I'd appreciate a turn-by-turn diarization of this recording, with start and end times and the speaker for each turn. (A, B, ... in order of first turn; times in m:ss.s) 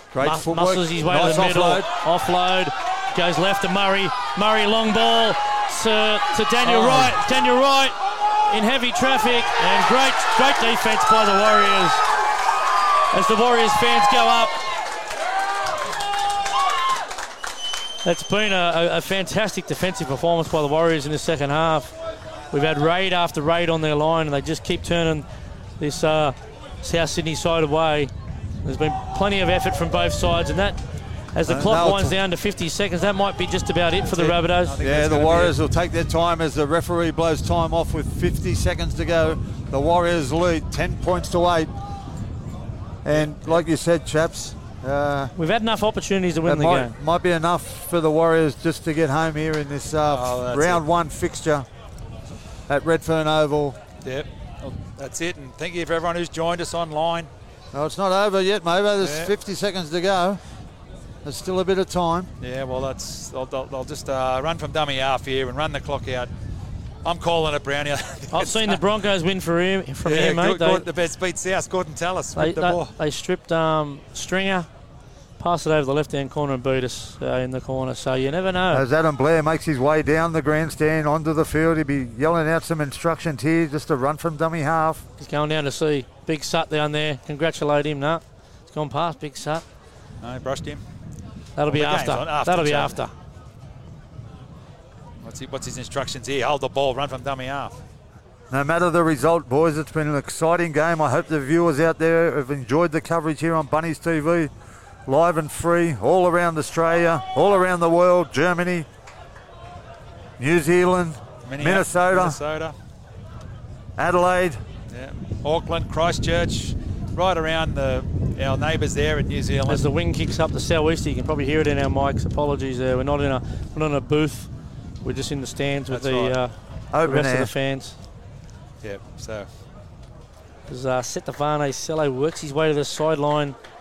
0:00.1-0:01.9 A
0:00.2-0:12.0 B
0:06.6-0:07.1 A
0:13.1-0:14.6 B
0:18.0-0:21.9 B
0:22.5-0:25.2 B
0:25.8-0:28.1 B
0:28.6-0:30.8 B
0:31.3-0:34.8 B
0:31.4-0:32.2 A
0:34.1-0:35.6 C
0:34.8-0:41.7 A
0:43.0-0:45.3 A
0:43.1-0:43.6 C
0:45.4-0:46.9 B
0:46.4-0:51.7 A
0:50.1-0:50.8 C
0:52.7-0:53.8 A
0:54.0-0:57.3 C
0:57.7-1:00.4 A
0:59.0-0:59.3 C
1:01.2-1:02.3 A
1:02.4-1:06.3 C
1:07.0-1:08.8 C
1:08.3-1:10.8 B
1:10.0-1:12.9 C
1:12.4-1:14.7 B
1:15.4-1:18.8 B
1:18.7-1:25.0 A
1:25.2-1:29.6 B
1:30.2-1:30.8 C
1:31.6-1:33.1 B
1:31.6-1:33.0 C
1:35.2-1:37.8 C
1:38.5-1:44.5 A
1:45.0-1:48.9 A
1:50.4-1:52.4 A
1:51.4-1:52.7 C
1:54.0-1:54.6 A
1:54.9-1:59.9 C
1:59.7-2:04.5 B
2:05.0-2:08.0 B
2:05.9-2:06.4 C
2:06.9-2:07.5 A
2:08.8-2:09.5 C
2:10.7-2:13.6 B